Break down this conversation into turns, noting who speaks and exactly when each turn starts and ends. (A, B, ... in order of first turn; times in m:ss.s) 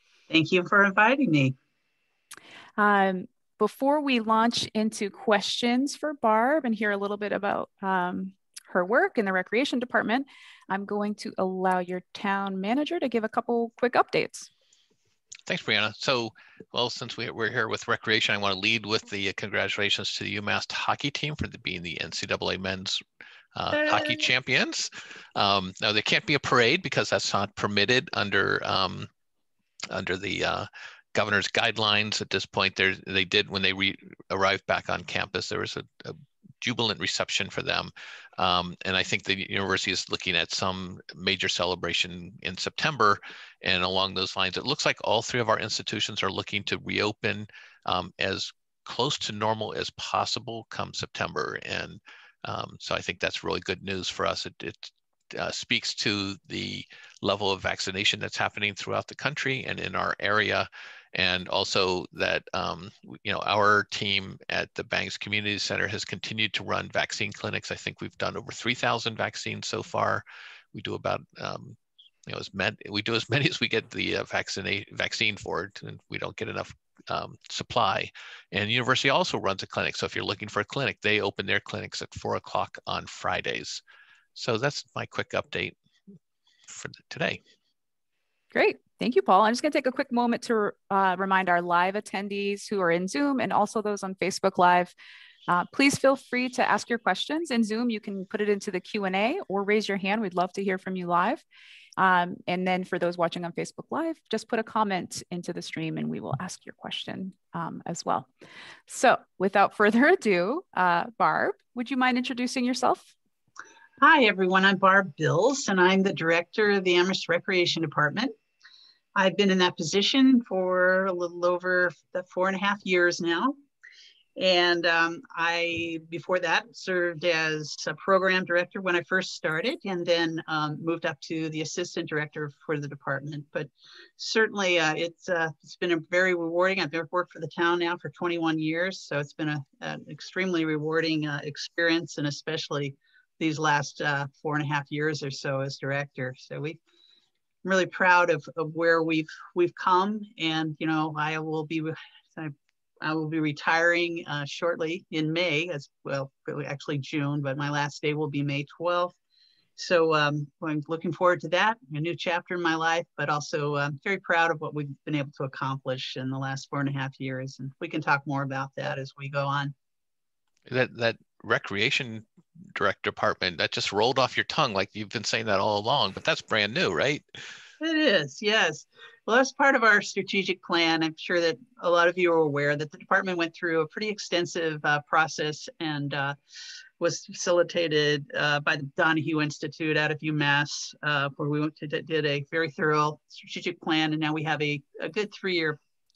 0:00.3-0:01.6 A
0:02.8-0:14.5 B
0:15.5-0:23.0 C
0:23.6-0:29.1 C
0:23.7-0:24.3 A
0:29.9-1:10.2 C
1:10.7-1:23.8 C
1:24.4-1:25.8 C
1:26.7-1:27.4 C
1:28.5-1:34.9 B
1:35.5-1:41.4 B
1:42.0-1:48.3 B
1:48.9-1:53.1 B
1:54.0-1:58.3 A
1:59.2-2:03.6 A
2:04.4-2:26.8 A
2:27.6-2:39.2 A
2:39.8-2:49.7 A
2:50.7-2:57.5 C
2:57.8-3:06.4 A
3:07.0-3:15.8 A